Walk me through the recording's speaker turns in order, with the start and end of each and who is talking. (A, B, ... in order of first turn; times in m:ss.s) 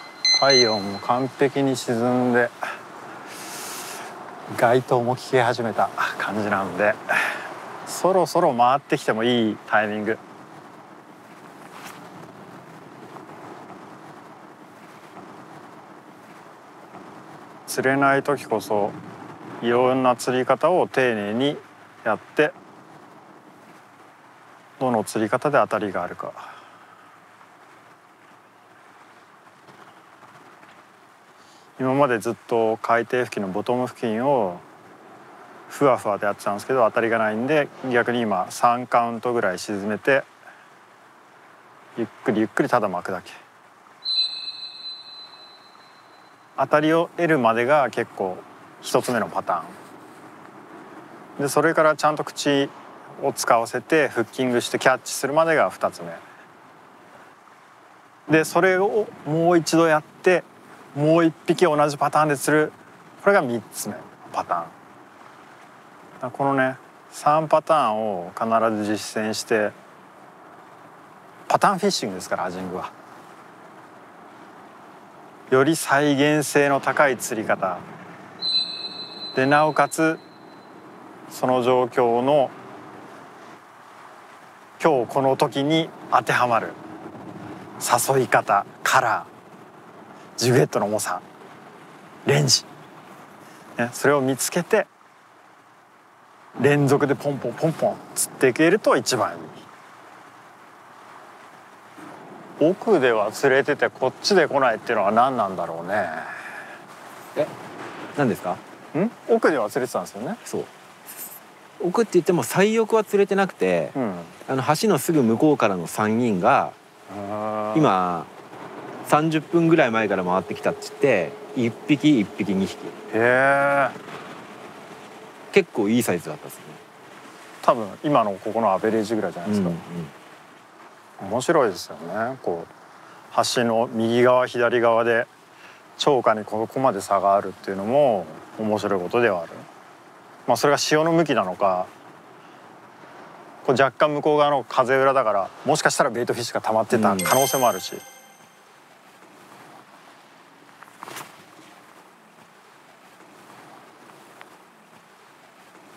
0:00.3-0:02.6 A
0:04.5-0:07.2 A
0:07.9-0:10.2 A
0:17.7-0:19.0 A
0:19.6-0:22.6 A
0:24.8-0:26.5 A
0:31.8-0:34.6 A
0:35.7-0:40.3 A
0:42.0-0:43.4 A
0:46.6-0:49.8 A
0:51.4-0:56.2 A
0:58.3-1:04.7 A
1:06.2-1:09.7 A
1:11.5-1:12.9 A
1:15.5-1:17.8 A
1:19.4-1:20.2 A
1:21.3-1:22.5 A
1:24.8-1:26.8 A
1:27.8-1:29.3 A
1:30.4-1:31.2 A
1:32.2-1:32.7 A
1:33.8-1:34.9 A
1:36.6-1:39.6 A
1:42.6-1:46.4 A
1:48.2-1:48.6 B
1:48.9-1:50.4 A
1:51.8-1:54.0 B
1:54.0-1:54.3 A
1:54.5-1:56.8 B
1:57.1-1:57.9 A
1:57.7-1:58.3 B
1:59.0-2:02.9 B
2:03.1-2:04.0 A
2:05.5-2:06.8 B
2:07.6-2:09.8 A
2:09.5-2:10.1 B
2:11.2-2:12.7 A
2:13.3-2:15.3 A
2:16.0-2:19.7 A
2:20.5-2:21.9 A
2:23.6-2:28.0 A
2:26.9-2:27.4 B